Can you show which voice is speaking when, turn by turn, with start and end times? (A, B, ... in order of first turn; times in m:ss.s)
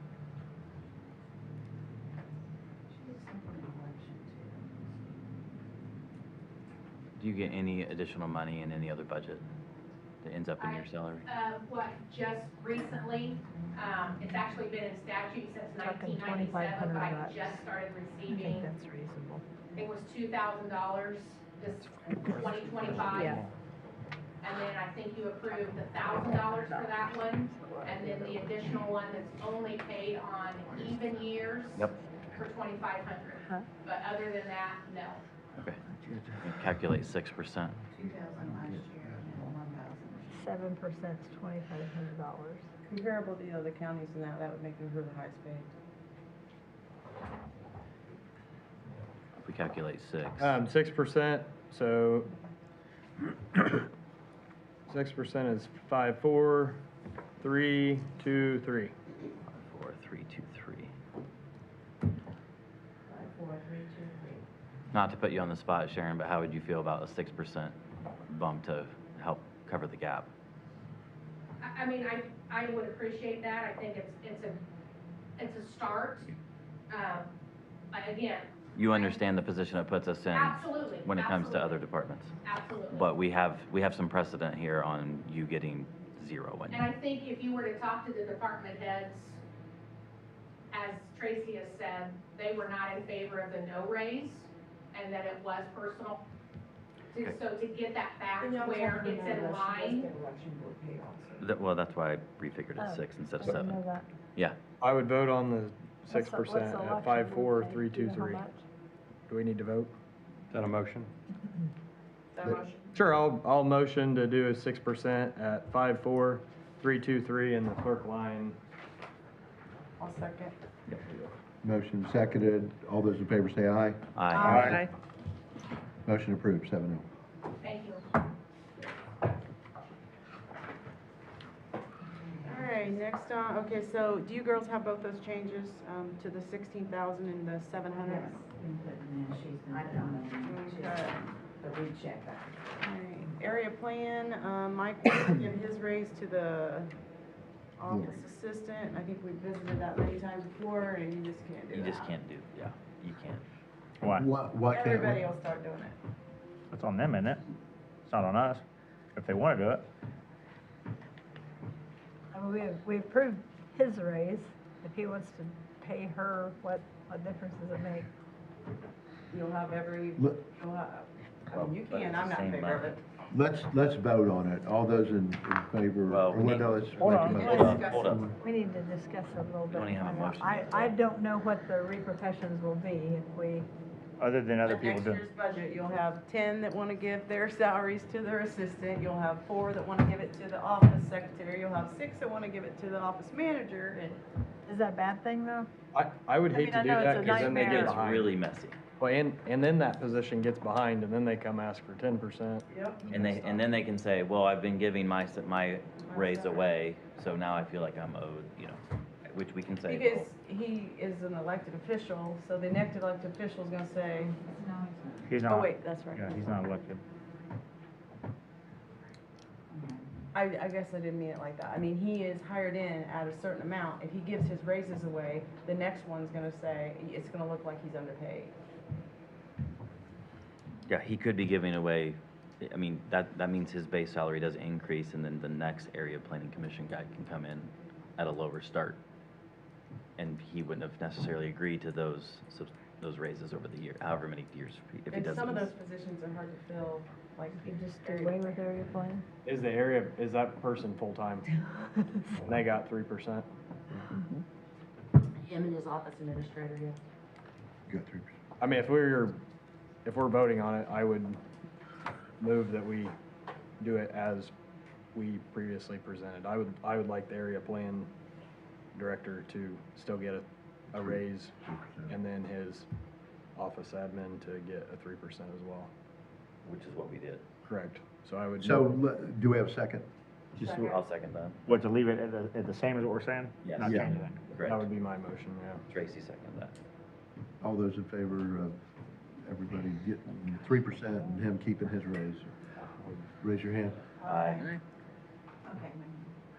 0:03.1-0:04.5 A
0:07.2-0:09.4 B
0:10.2-0:11.3 B
0:10.6-0:18.7 C
0:15.8-0:17.6 D
0:18.3-0:19.4 D
0:19.8-0:23.4 C
0:23.1-0:23.5 D
0:24.4-0:35.2 C
0:26.0-0:28.6 D
0:36.1-0:36.5 E
0:36.4-0:37.8 B
0:38.7-0:39.0 E
0:40.3-0:42.7 D
0:42.9-0:45.7 F
0:49.4-0:50.6 B
0:50.4-0:52.3 G
0:54.9-0:56.8 G
0:57.4-0:59.0 G
0:59.5-1:00.9 B
1:03.2-1:04.4 A
1:04.9-1:07.8 B
1:08.3-1:10.3 B
1:11.6-1:14.6 C
1:15.4-1:16.3 C
1:16.9-1:17.3 C
1:17.9-1:19.2 C
1:18.8-1:22.3 B
1:20.3-1:21.7 C
1:22.4-1:23.1 C
1:22.9-1:26.9 B
1:26.7-1:29.4 C
1:30.7-1:36.2 C
1:37.1-1:40.1 C
1:38.4-1:40.1 F
1:41.4-1:43.8 B
1:42.8-1:44.1 D
1:44.8-1:48.5 G
1:46.1-1:48.6 D
1:49.3-1:49.9 G
1:50.5-1:51.1 G
1:52.3-1:52.9 F
1:52.9-1:58.6 G
2:00.0-2:00.6 F
2:00.9-2:01.2 B
2:01.6-2:04.9 E
2:04.2-2:04.6 B
2:04.3-2:04.8 F
2:04.5-2:04.8 H
2:06.0-2:07.1 E
2:07.6-2:08.0 C
2:12.4-2:18.5 F
2:19.7-2:20.2 A
2:20.4-2:21.2 F
2:22.8-2:26.9 F
2:27.8-2:32.2 F
2:27.9-2:28.2 E
2:31.7-2:33.5 B
2:34.0-2:34.3 H
2:34.2-2:35.2 E
2:34.7-2:36.0 F
2:36.7-2:37.4 H
2:38.1-2:38.6 H
2:39.2-2:39.8 H
2:42.3-2:48.1 D
2:49.3-2:53.0 F
2:51.5-2:52.9 B
2:53.3-2:58.4 E
2:56.1-2:58.3 B
2:57.0-2:57.5 H
2:57.2-2:58.1 F
2:57.3-3:03.7 D
2:59.7-3:01.0 B
3:04.2-3:05.2 H
3:04.6-3:14.2 F
3:14.7-3:15.7 D
3:15.9-3:18.4 G
3:16.5-3:17.9 F
3:17.0-3:17.9 D
3:17.3-3:18.8 B
3:19.0-3:23.2 G
3:22.7-3:23.0 F
3:23.1-3:30.3 B
3:26.1-3:26.8 F
3:29.8-3:34.4 F
3:35.3-3:37.0 H
3:35.5-3:36.6 F
3:40.3-3:48.5 F
3:50.9-3:59.0 B
4:00.2-4:05.7 B
4:05.1-4:08.7 F
4:07.6-4:09.2 D
4:09.4-4:11.5 G
4:11.7-4:12.2 D
4:12.4-4:13.5 G
4:15.5-4:17.0 A
4:17.9-4:18.3 E
4:18.6-4:19.4 G
4:20.0-4:21.4 G
4:22.4-4:23.1 G
4:23.8-4:24.5 G
4:25.1-4:28.1 G
4:28.9-4:31.5 G
4:30.9-4:32.1 E
4:32.1-4:32.9 G
4:33.6-4:35.9 G
4:36.6-4:37.4 B
4:37.7-4:39.0 G
4:38.6-4:40.1 E
4:40.6-4:40.9 H
4:40.6-4:41.0 F
4:40.8-4:41.6 B
4:41.7-4:44.4 H
4:43.6-4:44.9 B
4:43.8-4:44.1 E
4:44.6-4:45.8 G
4:45.9-4:46.8 B
4:47.6-4:48.8 E
4:49.4-4:52.6 E
4:53.4-4:54.0 E
4:54.2-4:54.8 B